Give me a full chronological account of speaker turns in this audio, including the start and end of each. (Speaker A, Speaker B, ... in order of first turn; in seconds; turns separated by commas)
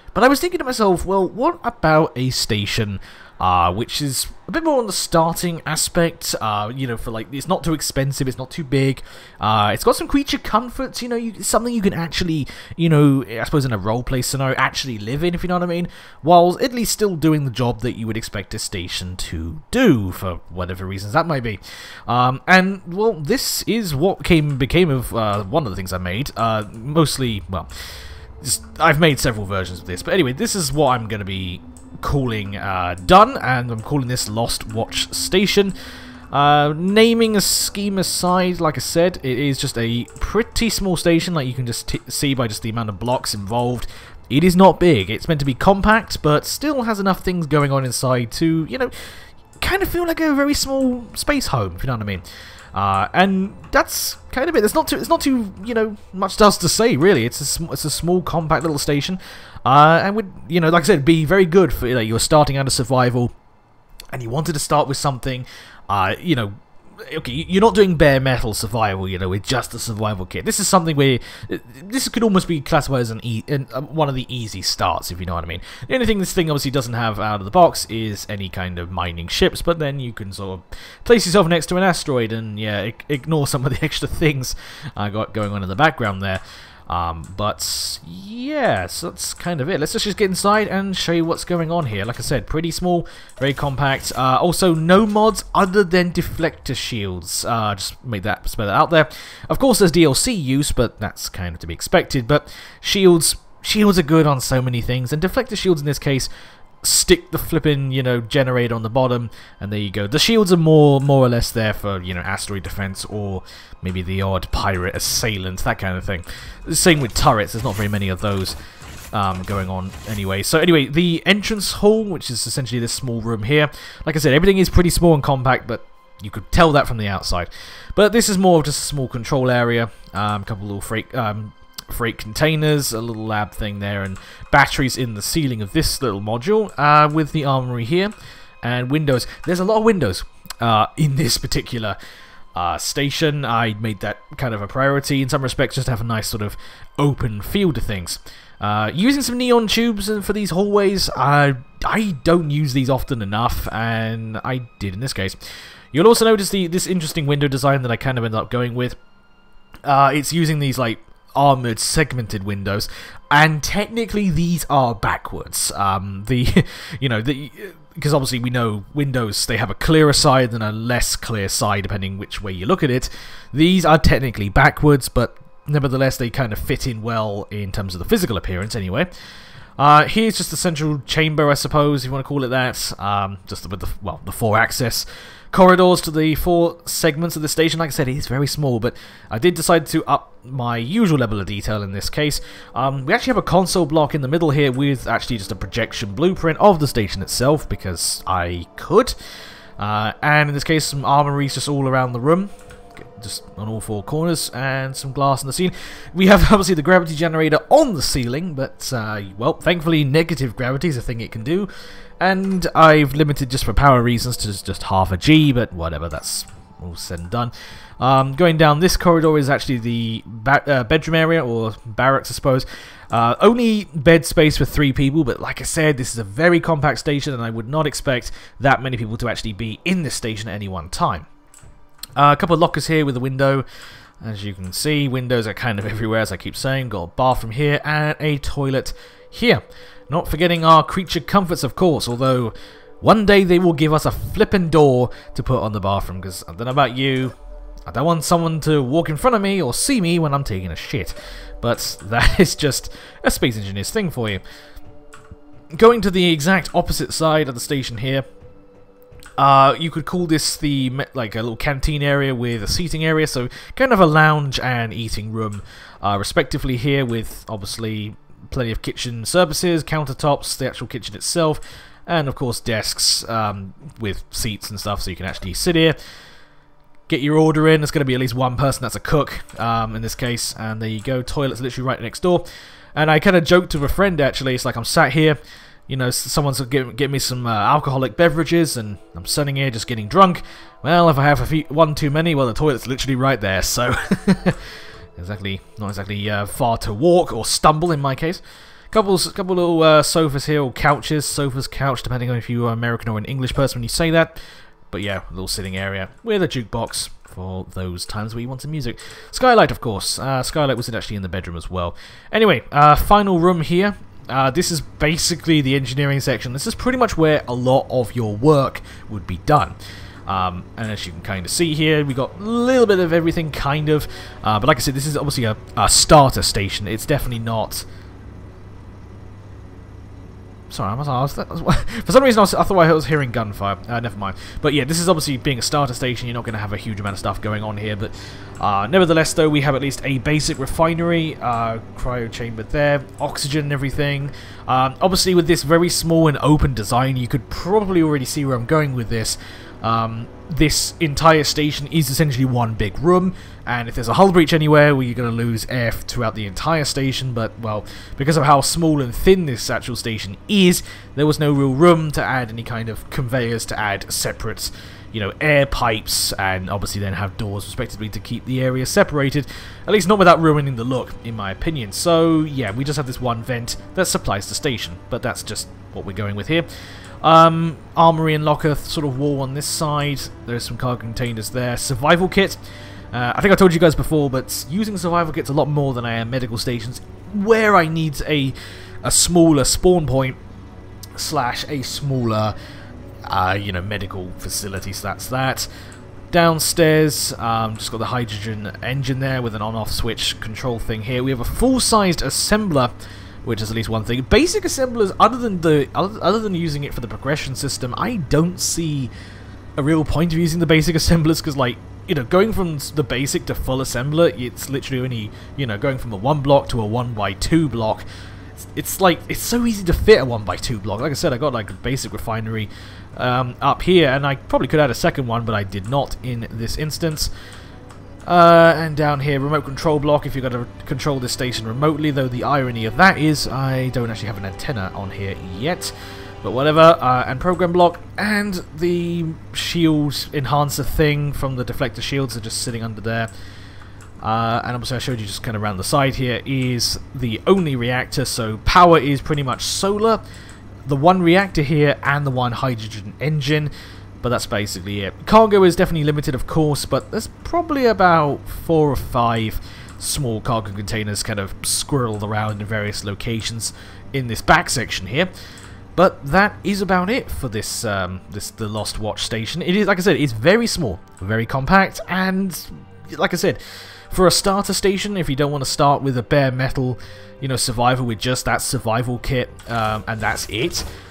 Speaker A: 0.1-27.7, Speaker A: 28.4-35.7, Speaker A: 36.3-48.9, Speaker A: 49.6-63.3, Speaker A: 64.1-106.3, Speaker A: 106.8-118.5, Speaker A: 119.1-142.0, Speaker A: 142.5-155.4, Speaker A: 155.9-159.0, Speaker A: 159.8-179.1, Speaker A: 179.8-199.1, Speaker A: 199.8-231.3, Speaker A: 232.2-233.6, Speaker A: 234.2-247.3, Speaker A: 247.9-254.4, Speaker A: 255.7-258.2, Speaker A: 259.4-276.0, Speaker A: 277.1-304.4, Speaker A: 304.9-327.8, Speaker A: 330.7-376.7, Speaker A: 377.2-382.6, Speaker A: 383.1-390.4, Speaker A: 391.1-392.5, Speaker A: 393.2-395.7, Speaker A: 396.3-402.9, Speaker A: 403.4-409.1, Speaker A: 409.8-418.0, Speaker A: 418.6-427.3, Speaker A: 428.2-443.3, Speaker A: 444.2-450.2, Speaker A: 450.8-465.3, Speaker A: 465.9-480.9